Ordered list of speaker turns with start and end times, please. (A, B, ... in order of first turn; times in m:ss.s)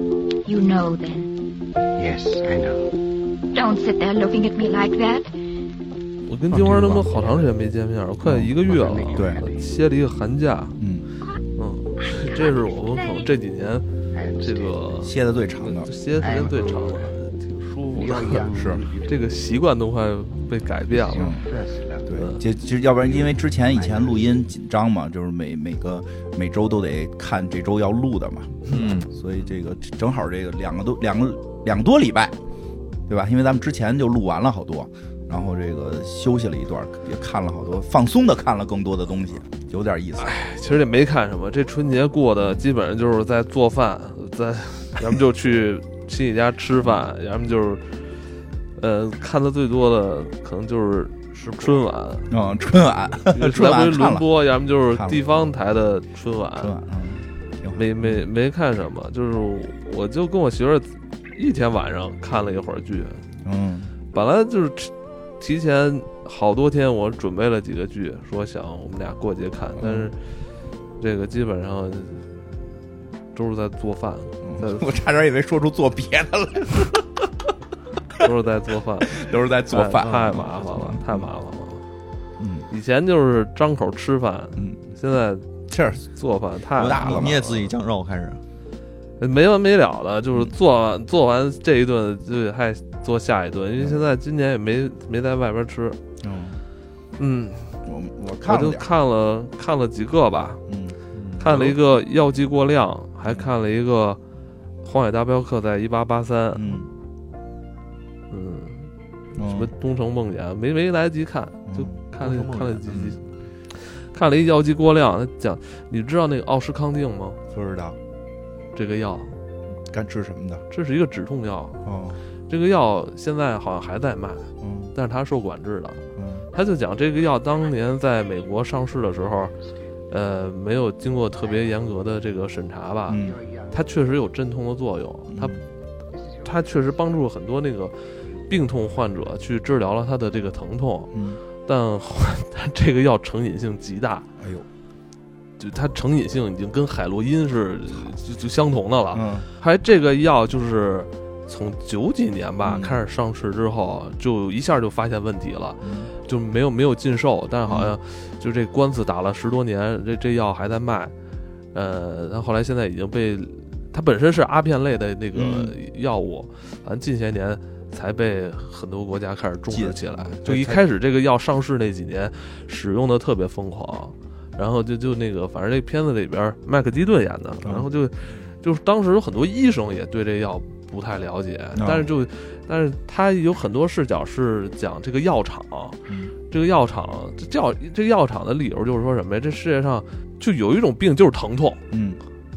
0:00.4-0:01.3 A
0:02.0-0:03.1 B
0:03.5-0:05.3 A
0:06.3-0:10.8 C
0:06.5-0:07.1 D
0:08.2-0:08.5 D
0:08.6-0:09.7 B
0:09.2-0:09.4 D
0:10.8-0:11.1 D
0:11.6-0:13.8 C
0:12.2-0:12.5 A
0:14.1-0:14.9 B
0:14.4-0:21.4 C
0:15.0-0:15.9 D
0:16.2-0:17.2 B
0:17.9-0:19.2 B
0:18.5-0:18.8 D
0:21.0-0:22.3 B
0:21.1-0:21.5 D
0:22.1-0:32.4 D
0:23.0-0:24.4 B
0:28.7-0:29.1 E
0:33.1-0:40.4 D
0:40.2-0:47.8 C
0:48.8-0:52.3 C
0:51.3-0:51.8 E
0:52.3-0:54.3 D
0:53.3-0:56.7 C
0:54.9-0:55.5 D
0:56.6-0:58.3 D
0:57.8-1:03.3 C
1:03.4-1:03.9 D
1:04.1-1:10.2 C
1:09.8-1:10.1 D
1:11.0-1:12.4 C
1:13.3-1:14.9 C
1:14.4-1:17.0 D
1:18.2-1:21.8 C
1:19.0-1:21.3 D
1:20.0-1:20.4 E
1:22.4-1:22.7 D
1:22.7-1:25.5 C
1:24.6-1:24.8 D
1:25.7-1:26.0 D
1:26.0-1:27.3 C
1:26.8-1:27.7 D
1:26.8-1:28.4 E
1:29.2-1:36.0 C
1:33.8-1:34.0 D
1:36.2-1:36.6 D
1:37.2-1:37.7 C
1:37.9-1:38.9 D
1:38.4-1:40.6 C
1:40.7-1:41.0 D
1:41.1-1:41.8 E
1:41.4-1:44.2 C
1:44.8-1:46.8 C
1:46.6-1:46.9 D
1:48.3-1:48.9 C
1:49.4-1:49.7 D
1:49.4-1:53.2 C
1:51.7-1:52.0 D
1:52.2-1:53.2 E
1:53.8-1:57.4 C
1:57.5-1:58.0 D
1:58.8-1:59.3 C
1:59.9-2:00.6 D
2:00.7-2:01.8 C
2:01.8-2:02.2 D
2:02.5-2:06.0 C
2:04.6-2:04.9 D
2:06.2-2:06.4 D
2:06.5-2:09.5 C
2:10.1-2:15.6 C
2:13.1-2:13.4 D
2:13.2-2:13.8 B
2:15.3-2:15.6 D
2:16.2-2:16.4 B
2:16.4-2:18.0 C
2:18.5-2:24.3 C
2:21.1-2:21.4 D
2:24.4-2:24.7 D
2:25.6-2:41.1 C
2:29.1-2:29.5 D
2:32.6-2:33.0 D
2:35.8-2:36.1 D
2:37.7-2:38.0 D
2:41.7-3:06.0 C
2:45.4-2:45.8 D
2:49.7-2:50.8 D
3:01.8-3:02.0 D
3:06.5-3:11.8 C
3:11.9-3:12.2 D